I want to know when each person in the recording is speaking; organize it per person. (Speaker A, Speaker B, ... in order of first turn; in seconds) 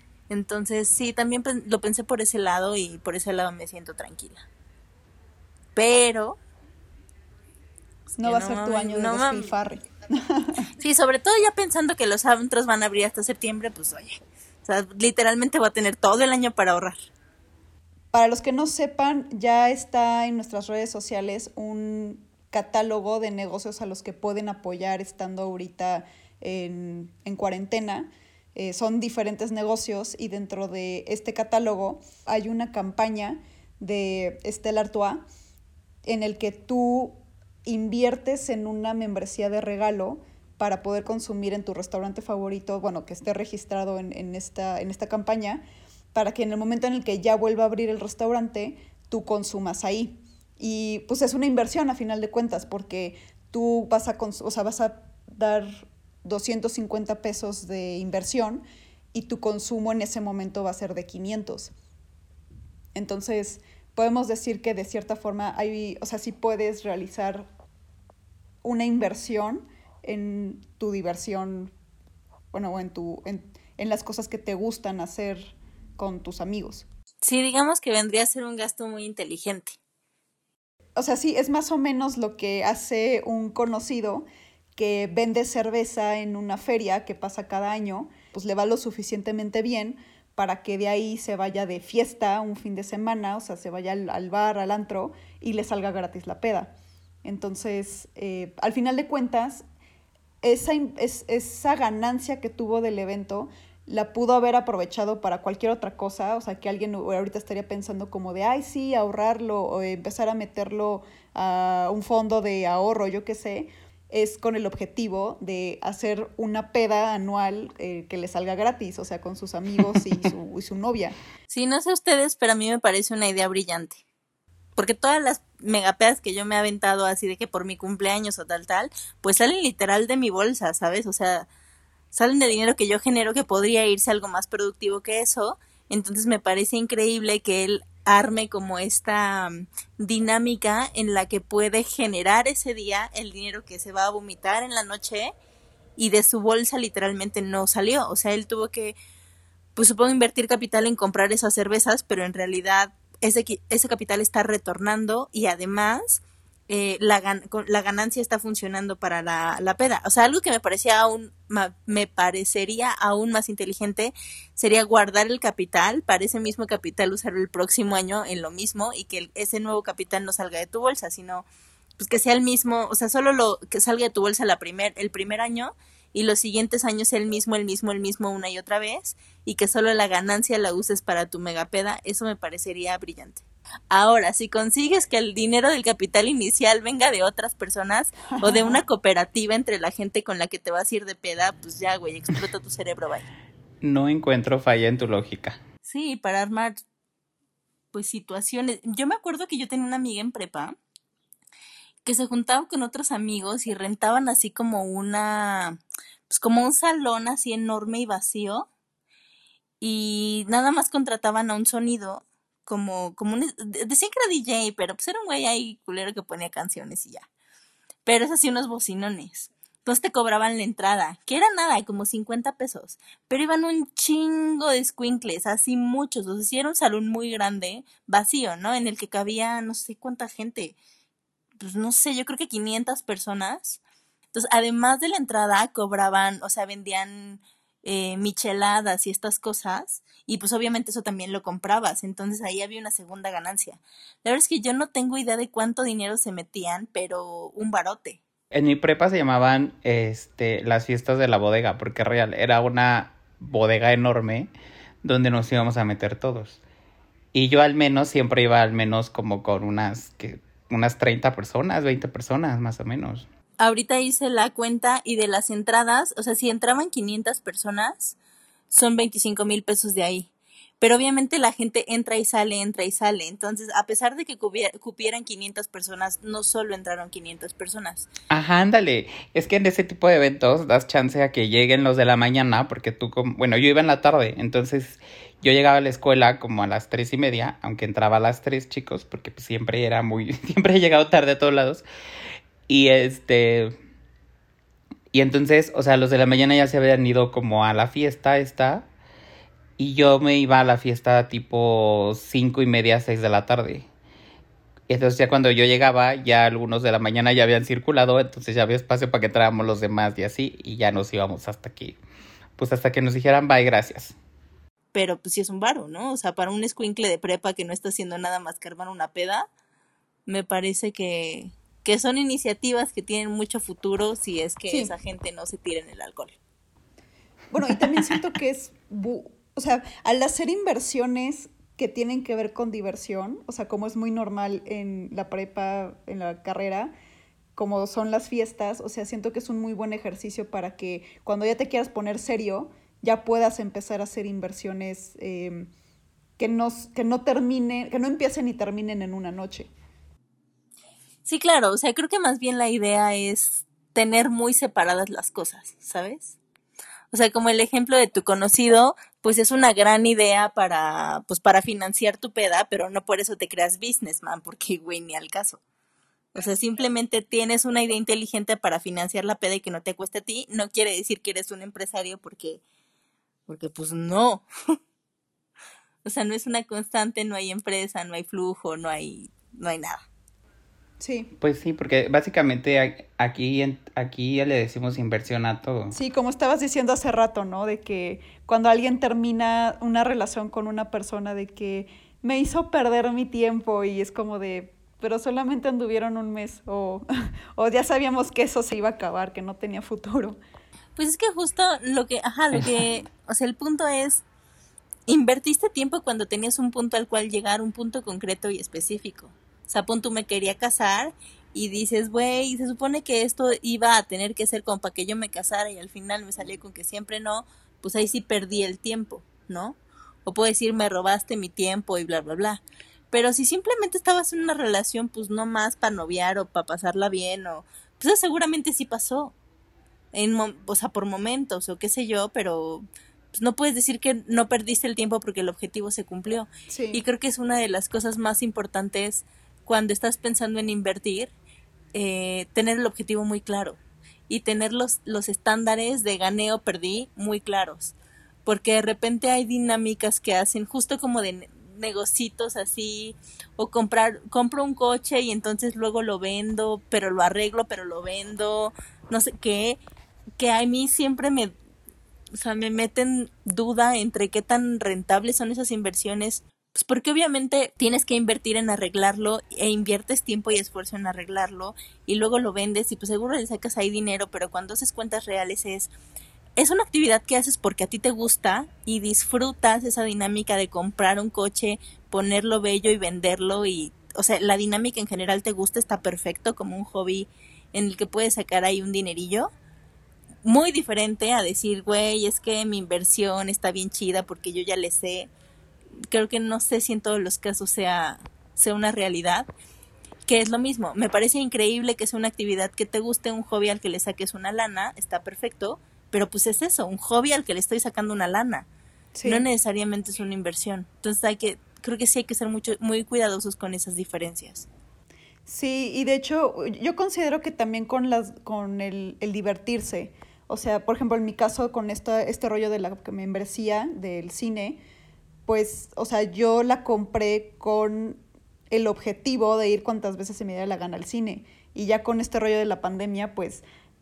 Speaker A: 0.3-4.5, 5.7-6.4, 8.2-9.5, 10.8-17.0, 77.2-79.8, 121.5-124.0, 124.8-131.5, 132.1-145.3, 146.0-148.9, 149.7-171.4, 172.0-193.2, 195.8-196.8, 197.9-200.8, 202.0-208.7, 209.8-217.3, 218.0-230.8, 231.6-233.8, 234.3-248.2, 263.6-268.1, 268.7-278.1, 314.9-319.5, 320.3-326.4, 351.2-356.4, 357.1-365.6, 366.3-372.6, 373.5-374.4, 376.0-380.0, 400.9-404.2, 405.1-429.3, 430.1-441.3, 441.9-443.8, 444.3-447.9, 448.4-459.8, 460.4-461.5, 462.3-475.9, 476.6-489.5, 490.4-495.3, 496.1-499.5, 500.3-508.7, 509.2-514.7
Speaker B: 8.2-10.6, 18.1-35.2, 36.0-45.6, 46.1-61.7, 62.9-67.5, 68.6-71.7, 72.5-76.8, 81.0-96.7, 97.2-99.6, 100.4-121.2, 188.4-188.8, 324.7-324.9, 327.5-336.9, 337.6-345.7, 346.4-349.7, 381.0-381.3, 385.9-400.4, 436.7-437.0, 509.1-509.4, 515.5-524.8, 525.5-533.6
Speaker C: 193.8-195.6, 248.5-254.5, 255.0-256.6, 257.3-263.2, 278.3-291.8, 292.7-293.7, 295.1-298.9, 299.8-303.9, 304.9-312.0, 312.6-314.1, 381.4-386.0